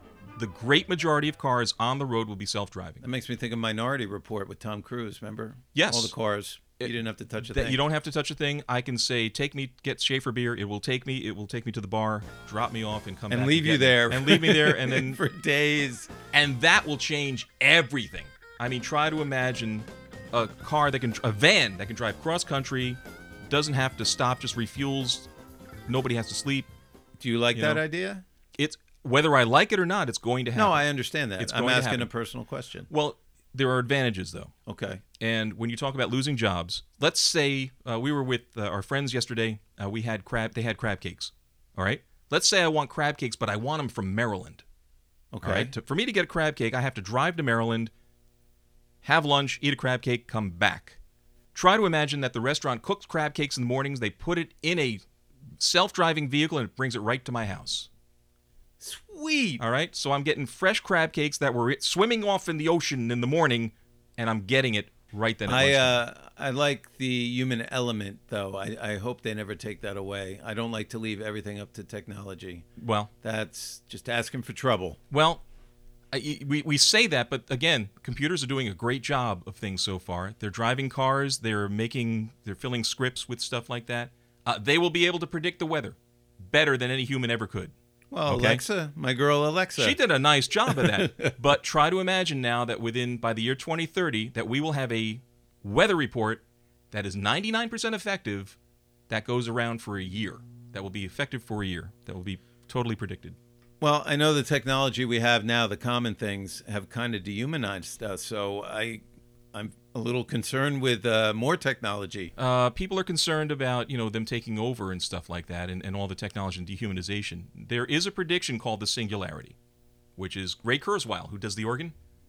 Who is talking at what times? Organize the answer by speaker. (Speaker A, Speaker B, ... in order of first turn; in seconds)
Speaker A: 0.3-3.0, 5.7-6.1, 6.8-15.2, 16.3-25.3, 25.9-26.7, 27.5-27.8, 28.6-30.8, 31.4-32.1, 32.9-34.5, 35.2-44.6, 45.4-47.9, 49.0-51.0, 51.5-55.0, 55.6-57.9, 59.6-66.0, 72.8-73.1, 75.1-75.4, 76.1-87.7, 88.2-88.6, 89.8-98.6, 99.1-103.4, 112.4-119.5, 120.2-121.9
Speaker B: 3.0-7.8, 13.3-16.1, 27.2-28.2, 30.5-32.9, 34.7-35.0, 45.3-45.7, 58.8-59.6, 65.5-72.7, 73.2-75.0, 88.1-90.0, 90.7-91.3, 103.8-112.3